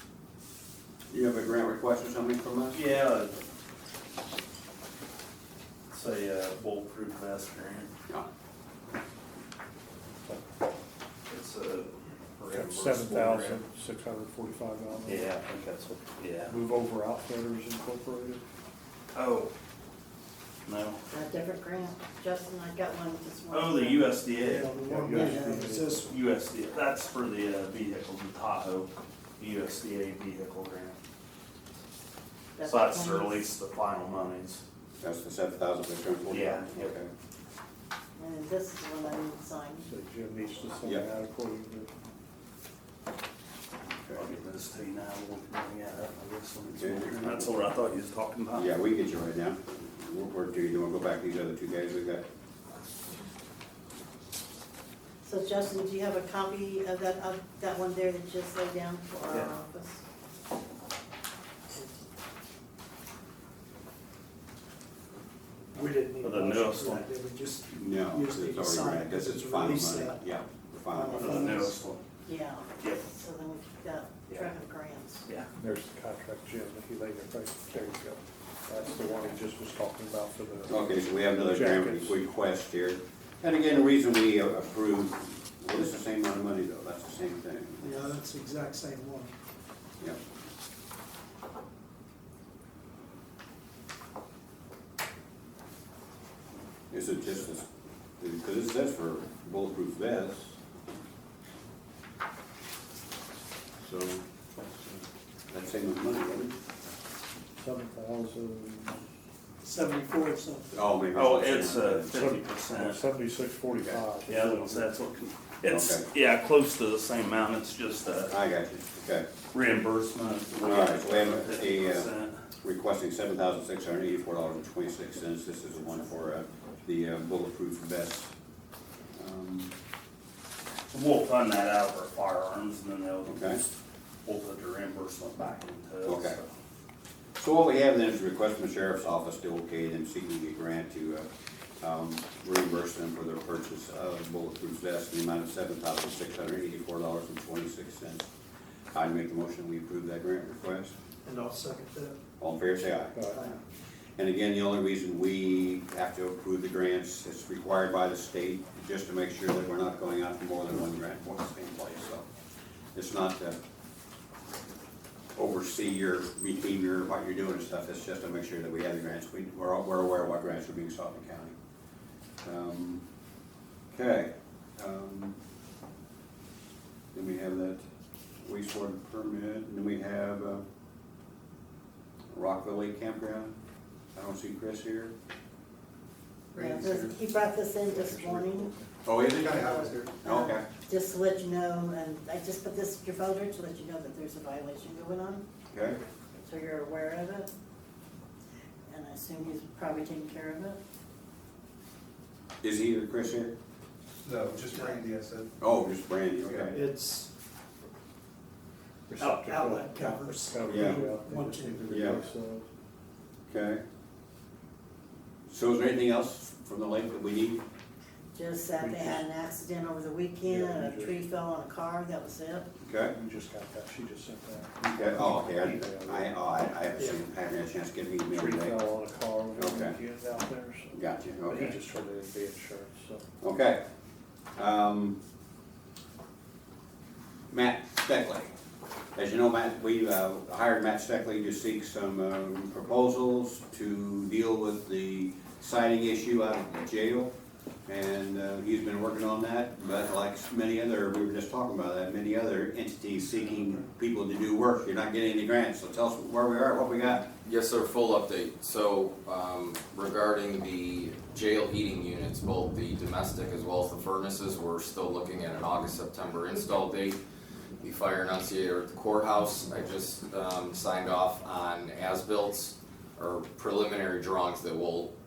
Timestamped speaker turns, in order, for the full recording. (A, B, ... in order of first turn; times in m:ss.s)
0:01.1-0:02.8 A
0:02.7-0:03.3 B
0:05.9-0:07.9 B
0:11.3-0:13.6 B
0:12.5-0:15.3 C
0:15.1-0:16.6 B
0:16.5-0:18.4 C
0:19.1-0:19.5 B
0:20.6-0:21.0 B
0:21.1-0:24.2 D
0:23.5-0:24.8 B
0:24.4-0:26.0 E
0:24.8-0:26.1 C
0:25.1-0:25.6 D
0:26.0-0:31.0 B
0:32.6-0:33.4 D
0:32.6-0:34.6 B
0:35.0-0:37.1 A
0:36.3-0:36.9 B
0:38.2-0:39.9 D
0:39.8-0:41.9 C
0:44.2-0:48.7 B
0:46.7-0:47.5 A
0:48.6-0:52.2 A
0:55.2-1:00.0 D
1:01.7-1:02.0 D
1:05.7-1:10.3 E
1:06.2-1:07.1 B
1:07.7-1:11.6 A
1:10.9-1:11.8 E
1:11.1-1:12.0 B
1:12.2-1:15.2 D
1:12.8-1:13.1 B
1:15.6-1:22.2 C
1:20.7-1:28.0 A
1:27.8-1:29.3 E
1:36.9-1:37.7 A
1:38.2-1:40.6 A
1:43.8-1:46.5 A
1:47.6-1:49.0 C
1:49.6-1:50.7 E
1:50.7-1:52.2 A
1:51.2-1:53.0 B
1:52.1-1:54.9 C
1:54.3-1:58.4 B
1:55.7-1:56.0 A
1:58.3-1:59.3 A
1:59.5-2:02.4 B
2:00.6-2:02.1 A
2:02.6-2:08.3 A
2:09.2-2:09.7 A
2:10.9-2:13.7 B
2:13.3-2:13.6 A
2:14.2-2:16.5 B
2:16.0-2:16.4 A
2:17.4-2:21.3 A
2:21.8-2:28.3 A
2:28.9-2:30.9 A
2:31.2-2:32.2 E
2:32.4-2:33.2 A
2:33.1-2:33.4 C
2:33.3-2:33.6 E
2:34.2-2:42.3 A
2:43.0-2:43.6 A
2:45.4-2:51.5 A
2:52.4-2:53.0 A
2:53.9-2:55.4 A
2:57.1-2:57.8 A
2:58.4-3:00.6 A
3:02.3-3:03.5 A
3:04.2-3:05.1 A
3:06.5-3:07.2 F
3:06.6-3:08.7 D
3:07.9-3:08.9 C
3:09.1-3:09.6 A
3:09.2-3:10.2 F
3:09.2-3:15.4 D
3:10.2-3:10.7 A
3:15.7-3:16.0 A
3:16.4-3:17.5 D
3:18.9-3:20.8 D
3:22.6-3:23.5 A
3:24.2-3:25.5 F
3:24.7-3:25.0 E
3:25.6-3:26.8 A
3:26.5-3:26.7 F
3:26.7-3:27.3 E
3:29.1-3:32.7 C
3:29.2-3:32.2 E
3:30.7-3:31.0 A
3:31.9-3:32.2 A
3:33.5-3:33.8 A
3:35.5-3:37.6 A
3:38.4-3:42.7 D
3:38.8-3:39.2 C
3:40.4-3:41.2 C
3:42.8-3:43.1 A
3:43.0-3:46.4 C
3:44.8-3:48.8 A
3:48.3-3:53.3 C
3:49.6-3:50.0 A
3:50.9-3:51.8 A
3:53.4-3:53.8 A
3:54.6-3:55.2 A
3:57.5-3:58.5 A
3:59.2-4:07.3 A
4:07.9-4:17.3 A
4:17.4-4:27.2 G
4:27.8-4:35.1 G